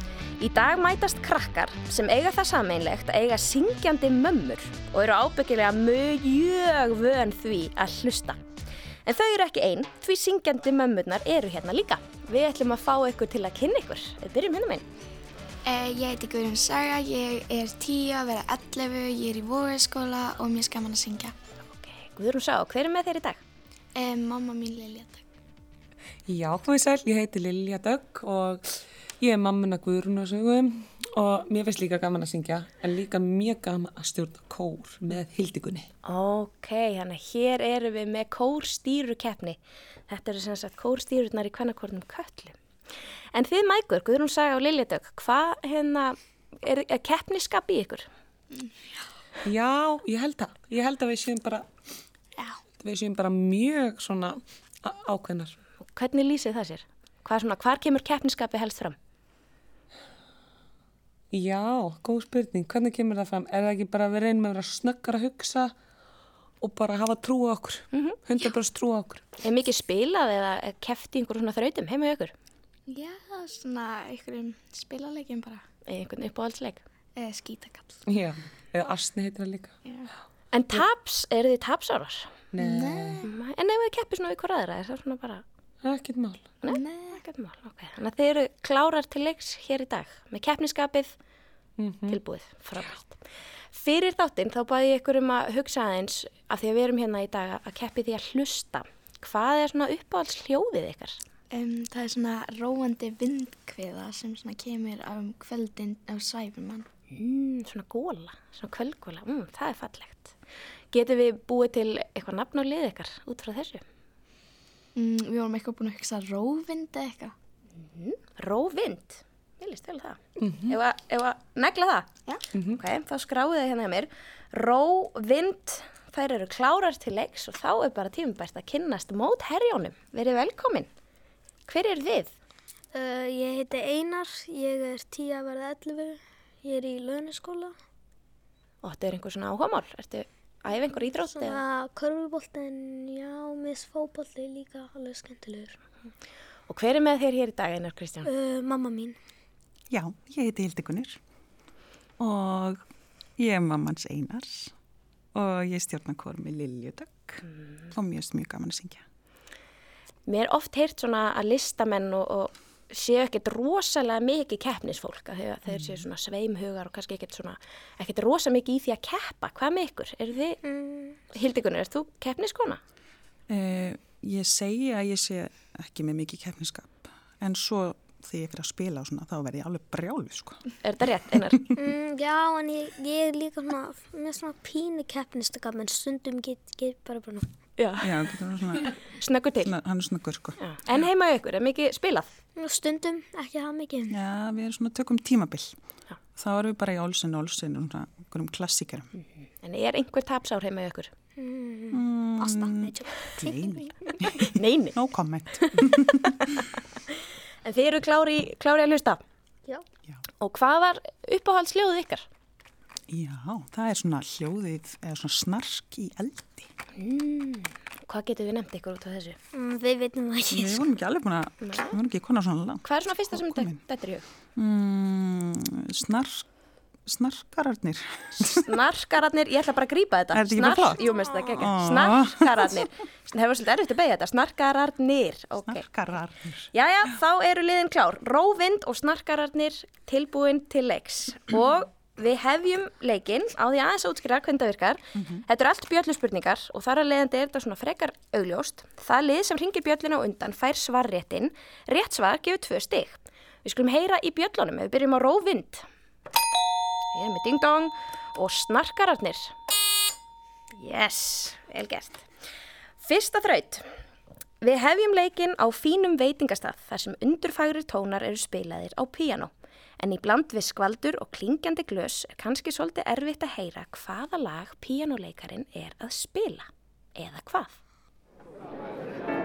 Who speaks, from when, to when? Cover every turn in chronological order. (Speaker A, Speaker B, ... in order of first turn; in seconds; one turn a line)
Speaker A: 0.4-8.4
Speaker A: 9.1-14.9
Speaker B: 15.7-21.3
Speaker A: 21.6-23.4
Speaker B: 23.9-25.2
Speaker C: 26.3-35.9
Speaker A: 36.0-42.6
Speaker A: 43.3-48.1
Speaker B: 48.5-49.0
Speaker C: 49.4-51.7
Speaker C: 52.8-55.5
Speaker A: 55.8-59.0
Speaker C: 61.3-65.7
Speaker C: 66.6-69.2
Speaker A: 67.9-68.2
Speaker A: 69.4-72.3
Speaker B: 72.9-75.6
Speaker A: 75.9-76.8
Speaker B: 77.2-78.0
Speaker C: 78.1-79.7
Speaker B: 79.8-80.1
Speaker A: 80.5-82.4
Speaker C: 82.5-83.2
Speaker B: 82.6-83.3
Speaker A: 83.2-85.4
Speaker C: 85.8-86.5
Speaker A: 86.6-91.2
Speaker B: 86.7-87.2
Speaker C: 91.8-92.2
Speaker A: 92.1-93.2
Speaker A: 93.7-101.2
Speaker B: 101.5-106.8
Speaker A: 107.1-110.4
Speaker A: 110.9-113.8
Speaker B: 115.0-117.3
Speaker A: 117.8-130.9
Speaker C: 120.4-120.8
Speaker A: 131.7-132.3
Speaker D: 132.9-137.7
Speaker A: 138.8-141.6
Speaker D: 141.2-145.8
Speaker A: 146.7-148.3
Speaker D: 148.2-149.2
Speaker E: 149.9-151.2
Speaker E: 152.2-152.8
Speaker E: 153.4-154.7
Speaker E: 155.3-159.0
Speaker A: 160.3-170.6
Speaker D: 170.6-171.2
Speaker A: 171.3-172.8
Speaker E: 173.5-180.6
Speaker A: 180.8-181.7
Speaker D: 181.7-187.5
Speaker A: 187.8-189.7
Speaker E: 188.0-188.9
Speaker E: 189.6-190.6
Speaker A: 190.6-192.3
Speaker D: 192.6-194.2
Speaker E: 194.1-195.8
Speaker E: 196.4-199.1
Speaker A: 199.2-201.1
Speaker D: 201.4-204.1
Speaker E: 201.9-206.2
Speaker A: 204.4-205.0
Speaker A: 205.5-209.2
Speaker A: 210.4-212.3
Speaker E: 213.1-216.7
Speaker A: 216.9-219.4
Speaker D: 219.5-220.9
Speaker E: 220.5-223.8
Speaker A: 221.6-222.0
Speaker A: 222.8-224.2
Speaker E: 224.6-226.5
Speaker E: 227.1-228.5
Speaker A: 228.4-235.9
Speaker E: 230.3-231.0
Speaker E: 231.6-232.7
Speaker E: 235.7-236.7
Speaker A: 236.7-255.9
Speaker E: 245.2-245.4
Speaker A: 257.1-259.5
Speaker A: 260.7-262.3
Speaker A: 263.0-263.9
Speaker A: 264.6-277.8